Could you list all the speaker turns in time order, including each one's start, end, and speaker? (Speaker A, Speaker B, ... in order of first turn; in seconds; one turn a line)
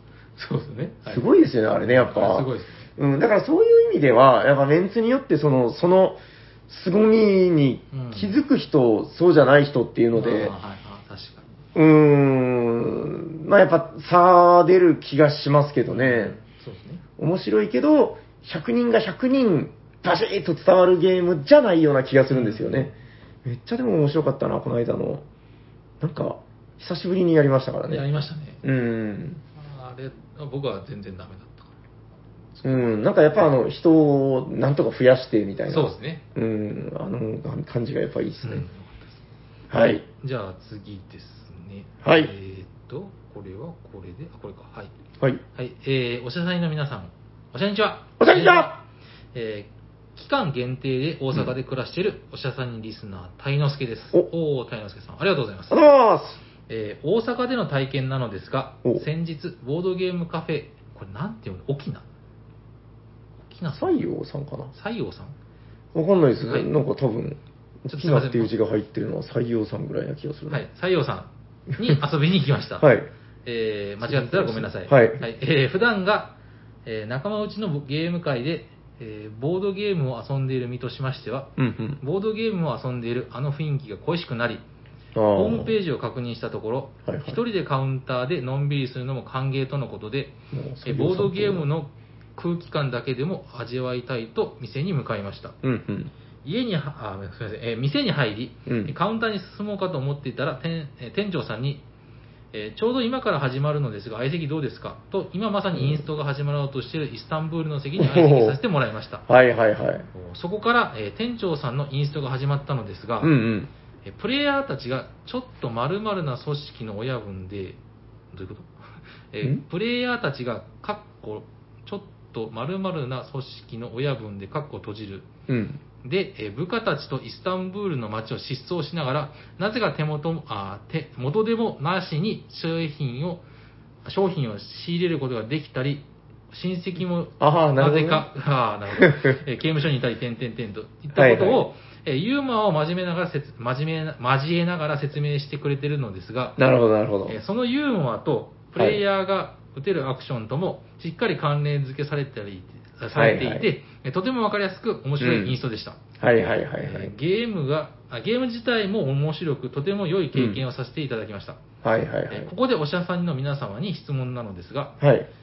Speaker A: 0.4-2.9
Speaker B: 1.1-10.5
Speaker A: 7.9-8.4
Speaker A: 10.1-11.6
Speaker B: 11.7-16.4
Speaker A: 15.9-17.0
Speaker B: 17.2-22.9
Speaker A: 22.3-22.9
Speaker B: 23.4-25.2
Speaker B: 26.0-28.0
Speaker A: 27.9-28.6
Speaker B: 28.6-29.4
Speaker A: 29.5-31.7
Speaker A: 32.5-33.0
Speaker B: 32.6-38.6
Speaker A: 35.7-36.2
Speaker A: 38.4-39.2
Speaker B: 39.7-40.0
Speaker A: 40.2-44.9
Speaker B: 42.0-42.3
Speaker A: 45.5-48.8
Speaker B: 48.2-48.8
Speaker A: 49.3-55.8
Speaker B: 55.7-56.4
Speaker A: 56.7-62.0
Speaker A: 63.5-64.0
Speaker B: 63.8-64.7
Speaker A: 64.7-65.3
Speaker B: 65.9-70.6
Speaker A: 67.9-68.5
Speaker A: 70.5-72.9
Speaker B: 72.8-73.1
Speaker A: 73.4-76.3
Speaker B: 74.0-75.2
Speaker A: 76.8-84.6
Speaker B: 81.6-82.0
Speaker B: 85.1-85.7
Speaker A: 85.3-95.5
Speaker B: 87.1-87.4
Speaker B: 90.5-91.7
Speaker B: 95.6-96.1
Speaker A: 96.4-101.8
Speaker B: 98.7-98.9
Speaker A: 102.5-109.2
Speaker B: 105.7-106.0
Speaker B: 108.0-108.6
Speaker B: 109.3-110.1
Speaker A: 110.1-113.3
Speaker B: 113.2-113.7
Speaker A: 114.0-117.8
Speaker A: 118.3-118.8
Speaker A: 119.3-125.3
Speaker B: 125.5-125.8
Speaker A: 126.0-133.4
Speaker A: 134.0-146.6
Speaker B: 137.4-138.2
Speaker B: 139.0-139.4
Speaker B: 141.1-141.6
Speaker B: 146.6-147.4
Speaker A: 147.3-156.0
Speaker B: 153.1-153.6
Speaker B: 155.2-155.6
Speaker B: 156.2-157.1
Speaker A: 156.8-161.6
Speaker B: 160.3-160.6
Speaker B: 161.8-162.5
Speaker A: 162.3-164.9
Speaker B: 165.0-165.3